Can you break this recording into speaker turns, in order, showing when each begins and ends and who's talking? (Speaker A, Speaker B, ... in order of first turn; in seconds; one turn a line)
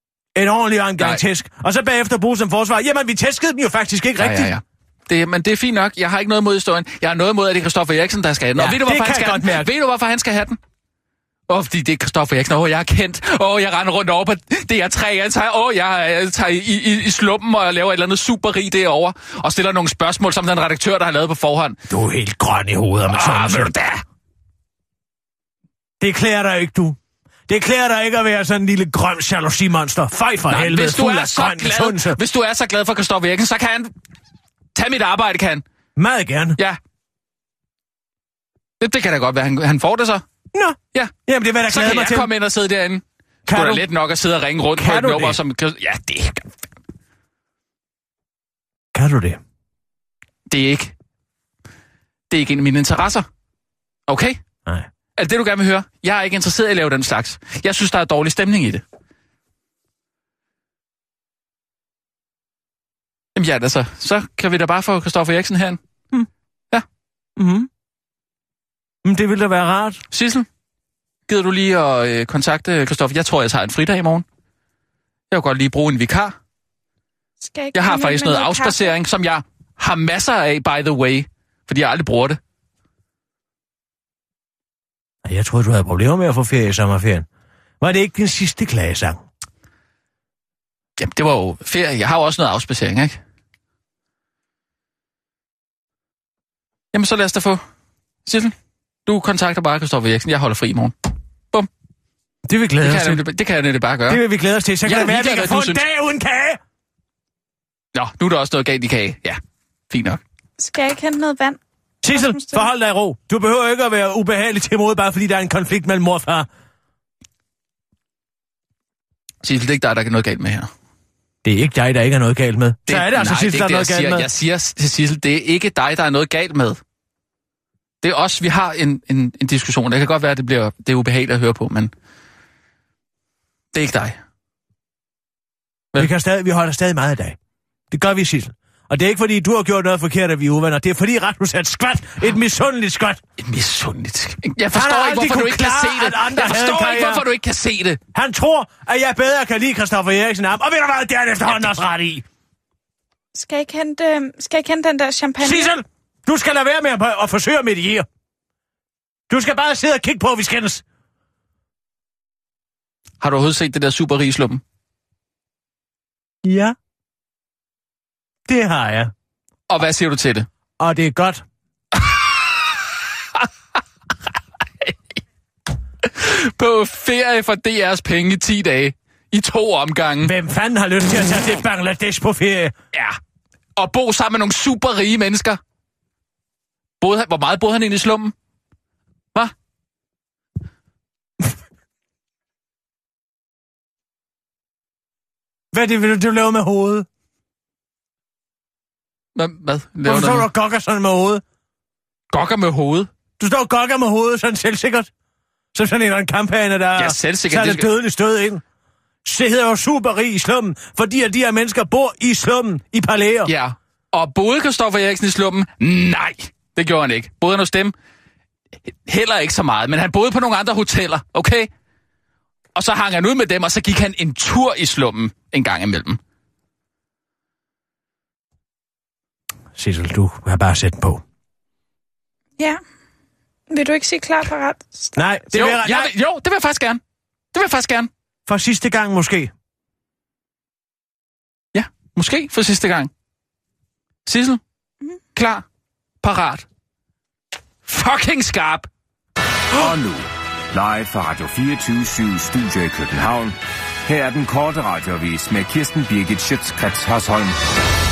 Speaker A: 0.3-4.5
Speaker B: 4.2-10.6
Speaker A: 8.6-9.7
Speaker B: 11.5-21.8
Speaker A: 21.9-23.7
Speaker B: 23.1-24.0
Speaker A: 26.0-32.2
Speaker B: 30.5-33.9
Speaker B: 34.7-35.6
Speaker A: 36.0-36.6
Speaker B: 38.8-40.2
Speaker A: 40.5-42.3
Speaker B: 41.7-46.5
Speaker A: 43.5-43.9
Speaker A: 44.8-45.4
Speaker A: 48.9-49.4
Speaker B: 50.5-50.9
Speaker B: 52.3-53.3
Speaker B: 54.1-54.4
Speaker B: 55.2-58.8
Speaker B: 63.4-65.8
Speaker A: 67.4-67.7
Speaker A: 69.0-70.0
Speaker B: 70.1-70.5
Speaker B: 71.3-74.2
Speaker B: 75.3-76.3
Speaker C: 77.4-79.0
Speaker B: 77.7-82.4
Speaker A: 85.2-87.3
Speaker A: 87.8-89.2
Speaker B: 91.0-93.2
Speaker B: 96.9-97.6
Speaker B: 98.3-98.5
Speaker B: 99.1-101.0
Speaker A: 102.5-103.2
Speaker B: 102.8-104.2
Speaker A: 104.1-106.6
Speaker B: 104.8-105.8
Speaker B: 107.9-109.4
Speaker B: 109.9-110.2
Speaker C: 110.6-112.7
Speaker A: 112.0-116.5
Speaker B: 119.4-120.7
Speaker A: 121.4-124.3
Speaker B: 122.9-126.8
Speaker B: 128.0-131.9
Speaker B: 133.7-134.2
Speaker A: 136.0-137.4
Speaker A: 137.9-143.2
Speaker B: 143.4-148.0
Speaker A: 144.7-147.2
Speaker A: 148.2-152.2
Speaker C: 153.3-155.8
Speaker A: 155.4-158.1
Speaker A: 159.3-160.8
Speaker B: 163.2-164.6
Speaker A: 166.4-166.8
Speaker A: 168.5-169.1
Speaker B: 169.7-170.5
Speaker A: 170.8-171.4
Speaker B: 176.1-180.3
Speaker A: 180.2-182.7
Speaker B: 182.9-183.2
Speaker B: 183.8-185.6
Speaker B: 187.0-188.3
Speaker A: 195.7-197.1
Speaker B: 199.4-200.5
Speaker A: 200.0-201.4
Speaker B: 202.3-203.1
Speaker A: 203.4-205.1
Speaker A: 205.7-208.6
Speaker B: 207.0-207.9
Speaker A: 209.2-213.5
Speaker B: 213.4-217.9
Speaker B: 218.9-221.7
Speaker B: 222.8-226.2
Speaker A: 229.8-231.2
Speaker C: 233.7-235.1
Speaker A: 235.2-236.1
Speaker B: 235.5-237.0
Speaker B: 237.5-238.1
Speaker A: 238.5-239.5
Speaker B: 241.7-243.1
Speaker B: 244.3-244.6
Speaker B: 245.3-245.7
Speaker B: 246.2-246.7
Speaker B: 247.9-248.9
Speaker D: 249.7-257.6